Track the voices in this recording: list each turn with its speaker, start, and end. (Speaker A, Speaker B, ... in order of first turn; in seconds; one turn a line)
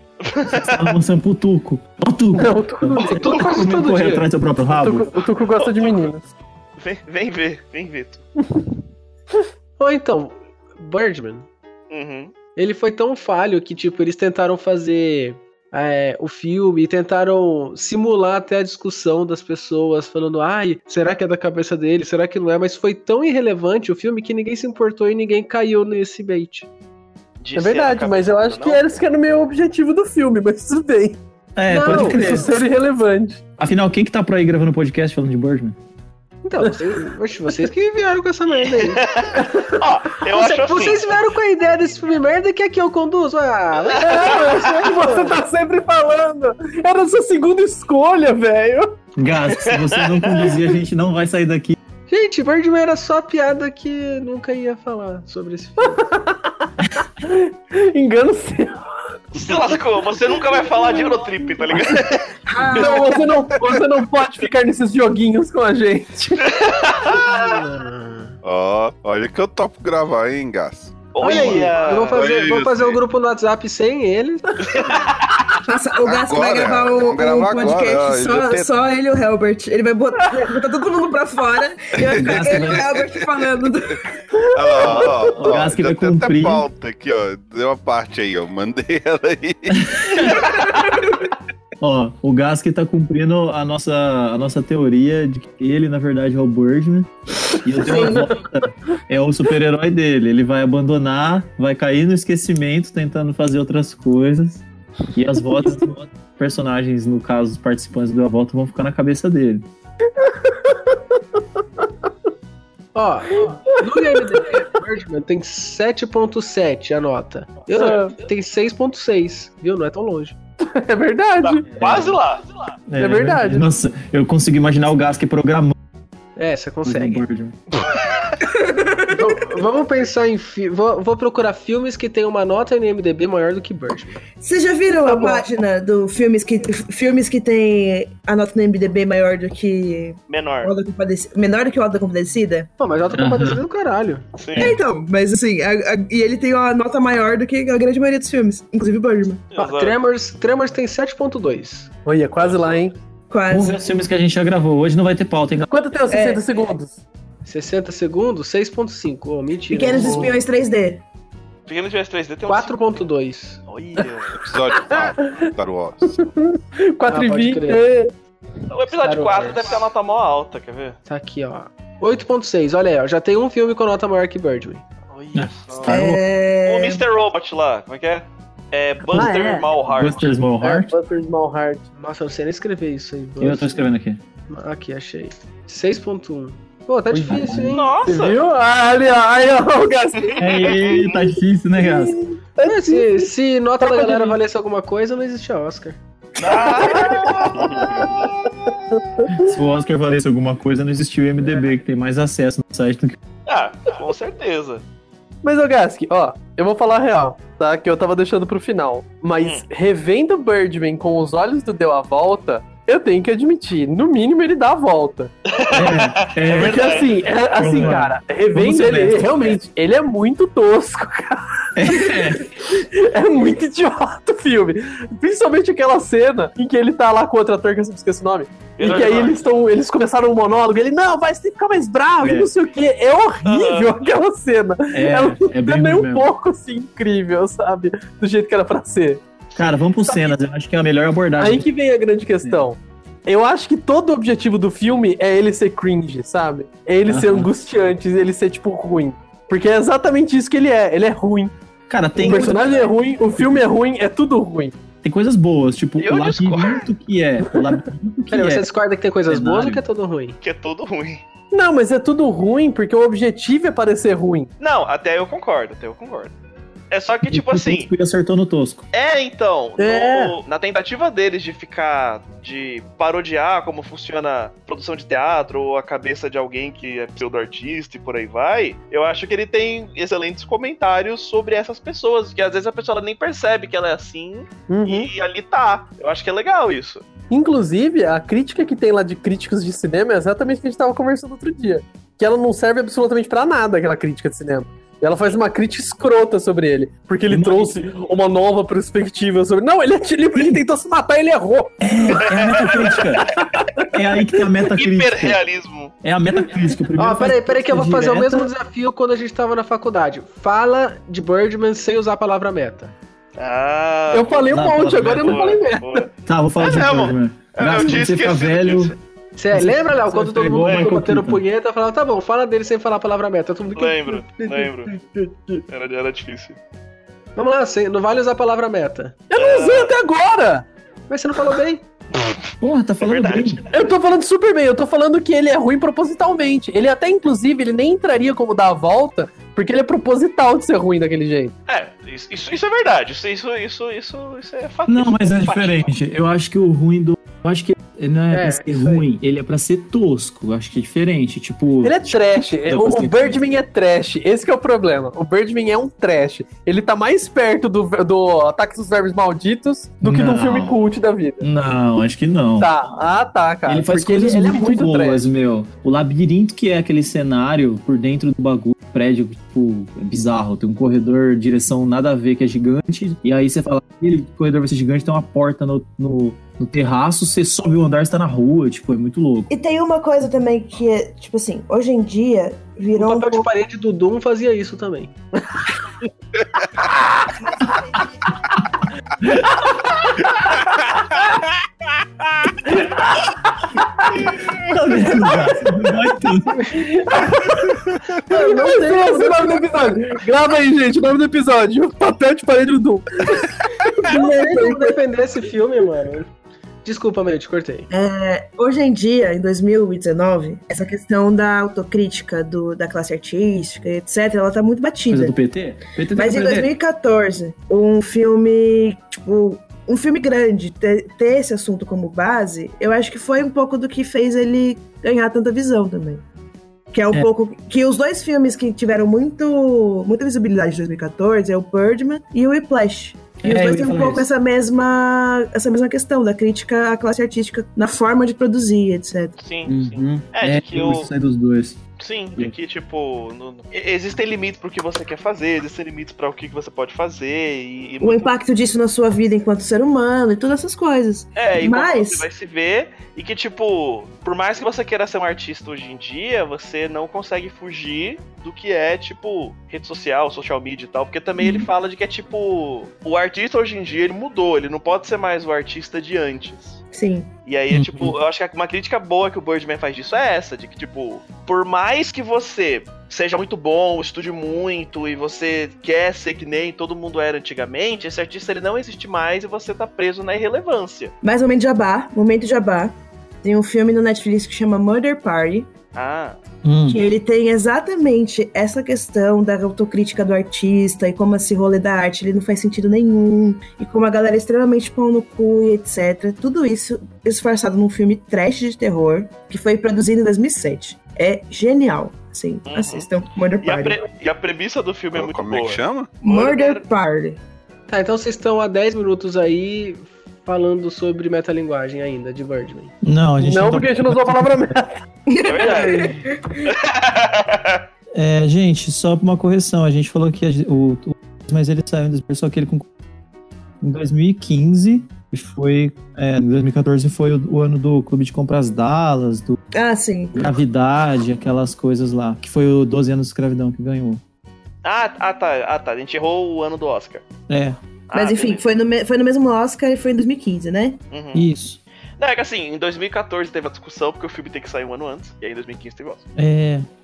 Speaker A: 0.2-0.9
Speaker B: 0.5-5.1
Speaker C: 2.4-3.4
Speaker D: 3.1-4.2
Speaker C: 4.7-6.2
Speaker A: 5.5-6.1
Speaker A: 6.8-8.2
Speaker D: 9.8-11.4
Speaker A: 11.9-12.3
Speaker D: 12.6-26.7
Speaker A: 27.4-28.8
Speaker C: 27.5-31.2
Speaker B: 31.6-32.5
Speaker D: 31.7-32.5
Speaker C: 31.8-33.4
Speaker B: 33.6-35.8
Speaker D: 36.4-39.2
Speaker C: 36.6-37.0
Speaker A: 38.5-41.2
Speaker C: 39.4-39.8
Speaker D: 40.3-45.4
Speaker A: 44.0-44.5
Speaker C: 44.0-49.0
Speaker B: 49.2-51.8
Speaker A: 49.6-50.5
Speaker D: 52.1-56.1
Speaker C: 55.8-58.9
Speaker A: 59.3-62.4
Speaker E: 62.5-63.3
Speaker C: 62.7-66.6
Speaker A: 66.4-67.6
Speaker D: 67.1-68.4
Speaker F: 68.4-73.0
Speaker A: 71.1-72.4
Speaker D: 71.2-74.4
Speaker A: 74.6-75.4
Speaker E: 75.6-84.1
Speaker F: 76.0-78.7
Speaker B: 82.1-82.9
Speaker F: 84.5-90.4
Speaker E: 84.8-85.2
Speaker B: 85.3-86.7
Speaker B: 89.7-90.4
Speaker B: 91.8-109.7
Speaker E: 97.8-98.3
Speaker C: 97.8-98.3
Speaker C: 110.2-111.9
Speaker D: 112.9-120.4
Speaker C: 113.5-114.6
Speaker C: 117.7-118.1
Speaker C: 120.6-121.6
Speaker A: 121.6-122.8
Speaker B: 121.7-122.2
Speaker B: 122.9-125.7
Speaker C: 123.0-123.7
Speaker D: 126.4-127.2
Speaker B: 126.8-127.6
Speaker E: 128.4-129.4
Speaker D: 129.1-134.2
Speaker E: 134.4-142.7
Speaker D: 135.0-135.4
Speaker A: 140.3-140.7
Speaker D: 142.8-144.2
Speaker B: 143.1-143.6
Speaker A: 144.4-144.8
Speaker E: 144.6-149.4
Speaker A: 149.5-149.9
Speaker D: 149.6-151.9
Speaker C: 152.0-152.9
Speaker E: 153.3-153.8
Speaker B: 153.5-155.7
Speaker C: 155.7-157.0
Speaker E: 156.1-156.4
Speaker D: 157.4-160.4
Speaker E: 159.7-161.0
Speaker C: 159.9-160.3
Speaker A: 161.7-163.0
Speaker D: 162.5-163.6
Speaker A: 163.7-164.4
Speaker F: 164.4-166.3
Speaker C: 164.7-165.5
Speaker C: 166.2-168.1
Speaker D: 167.1-167.8
Speaker A: 168.7-171.0
Speaker D: 168.9-169.8
Speaker D: 171.1-174.8
Speaker A: 175.1-176.0
Speaker B: 175.3-176.2
Speaker E: 175.9-177.0
Speaker A: 176.6-180.3
Speaker C: 179.1-179.7
Speaker B: 179.9-180.9
Speaker C: 180.6-181.8
Speaker D: 181.9-183.9
Speaker B: 183.4-184.2
Speaker D: 184.5-187.9
Speaker B: 187.1-187.8
Speaker A: 187.7-188.4
Speaker C: 188.0-190.7
Speaker A: 190.3-191.3
Speaker B: 190.4-192.2
Speaker C: 191.8-194.4
Speaker D: 192.6-196.0
Speaker A: 196.4-198.7
Speaker C: 196.4-199.3
Speaker F: 197.6-198.0
Speaker B: 199.3-203.2
Speaker A: 203.5-204.8
Speaker C: 205.4-215.3
Speaker A: 215.4-217.4
Speaker B: 215.7-219.5
Speaker C: 216.5-239.2
Speaker B: 221.8-222.5
Speaker A: 228.8-229.4
Speaker B: 232.2-232.5
Speaker A: 233.4-234.0
Speaker B: 234.9-236.3
Speaker B: 239.5-241.7
Speaker C: 241.4-251.5
Speaker B: 247.1-247.5
Speaker B: 251.9-253.6
Speaker C: 252.2-254.8
Speaker B: 255.0-258.7
Speaker A: 256.0-256.9
Speaker D: 258.3-260.4
Speaker B: 259.3-259.8
Speaker A: 260.4-261.2
Speaker C: 261.5-264.5
Speaker A: 264.6-266.3
Speaker A: 266.9-267.9
Speaker B: 267.3-268.8
Speaker A: 268.9-287.0
Speaker C: 269.8-270.4
Speaker C: 284.7-285.1
Speaker C: 287.3-302.2
Speaker B: 297.3-297.8
Speaker B: 300.4-300.6
Speaker B: 301.8-305.4
Speaker A: 302.3-302.9
Speaker C: 303.2-303.9
Speaker A: 304.7-305.9
Speaker B: 306.0-308.5
Speaker D: 306.9-312.9
Speaker A: 313.4-319.0
Speaker C: 314.1-316.1
Speaker B: 314.5-315.5
Speaker B: 316.2-318.9
Speaker D: 319.4-324.6
Speaker B: 319.5-321.4
Speaker A: 320.6-320.9
Speaker A: 323.7-324.9
Speaker C: 325.1-325.6
Speaker A: 325.7-326.6
Speaker D: 327.4-329.2
Speaker C: 329.3-330.6
Speaker A: 329.3-329.9
Speaker D: 331.1-331.8
Speaker B: 332.6-333.6
Speaker A: 333.0-333.9
Speaker C: 333.7-341.5
Speaker A: 341.7-345.9
Speaker B: 344.9-352.1
Speaker D: 348.3-349.0
Speaker C: 351.8-361.5
Speaker B: 352.6-353.4
Speaker B: 360.0-360.8
Speaker B: 361.4-362.7
Speaker C: 362.6-365.3
Speaker B: 363.7-379.5
Speaker E: 379.5-383.5
Speaker D: 382.9-385.1
Speaker B: 389.2-389.5
Speaker C: 392.6-394.1
Speaker B: 394.5-396.8
Speaker C: 396.7-405.0
Speaker D: 398.3-399.5
Speaker D: 404.0-406.3
Speaker D: 406.8-407.9
Speaker E: 407.9-415.4
Speaker B: 415.1-416.7
Speaker E: 416.1-426.2
Speaker E: 426.9-439.4
Speaker B: 433.4-434.3
Speaker A: 439.4-441.1
Speaker B: 439.6-441.8
Speaker A: 442.0-448.3
Speaker E: 448.0-452.3
Speaker A: 451.4-466.8
Speaker E: 461.4-461.6
Speaker E: 466.9-467.3
Speaker A: 467.4-481.1
Speaker B: 467.7-468.2
Speaker E: 481.2-485.7
Speaker A: 485.9-486.4
Speaker B: 486.6-487.0
Speaker E: 486.9-504.0
Speaker A: 502.7-506.8
Speaker F: 505.1-506.1
Speaker E: 506.2-507.4
Speaker D: 507.9-512.9
Speaker B: 513.0-514.8
Speaker C: 513.4-515.0
Speaker E: 515.3-516.6
Speaker A: 515.4-517.8
Speaker D: 515.6-516.2
Speaker B: 518.1-522.9
Speaker B: 523.8-529.6
Speaker E: 529.7-530.5
Speaker B: 530.4-534.2
Speaker A: 534.8-537.2
Speaker B: 537.5-537.8
Speaker A: 538.1-538.6
Speaker E: 538.1-541.0
Speaker A: 541.1-541.5
Speaker B: 541.3-541.8
Speaker A: 542.2-546.2
Speaker B: 546.4-546.9